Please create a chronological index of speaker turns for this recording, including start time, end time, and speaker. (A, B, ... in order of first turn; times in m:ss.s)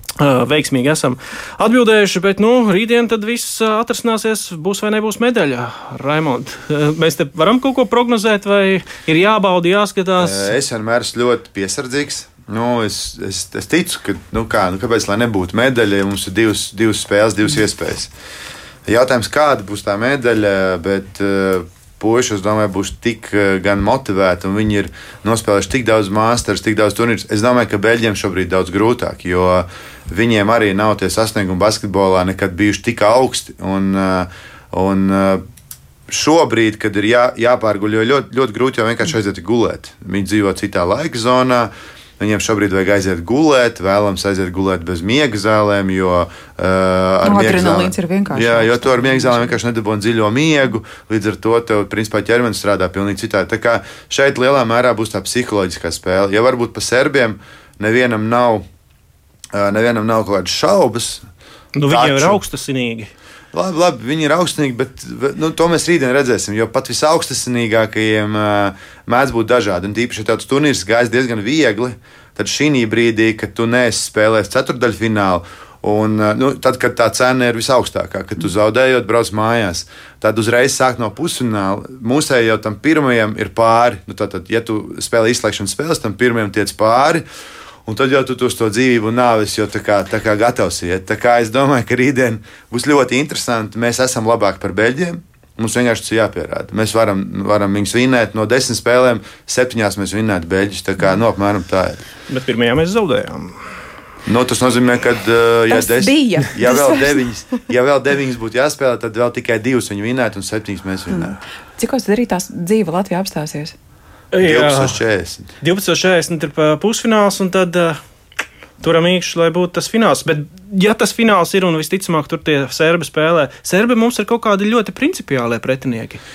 0:00.2-0:10.5 A
0:10.2-0:18.1 B
0:18.9-0:35.4 B
0:36.1-0:58.7 B
0:47.2-0:49.5 C
0:59.5-1:01.3 B
1:01.8-1:03.1 A
1:01.9-1:02.4 B
1:03.5-1:27.2 B
1:27.9-1:42.0 B
1:42.3-1:43.6 A
1:44.3-1:51.4 B
1:45.7-1:47.2 C
1:51.1-1:53.8 C
1:54.3-1:55.0 A
1:54.4-1:55.5 B
1:55.6-1:58.0 A
1:58.8-2:06.2 A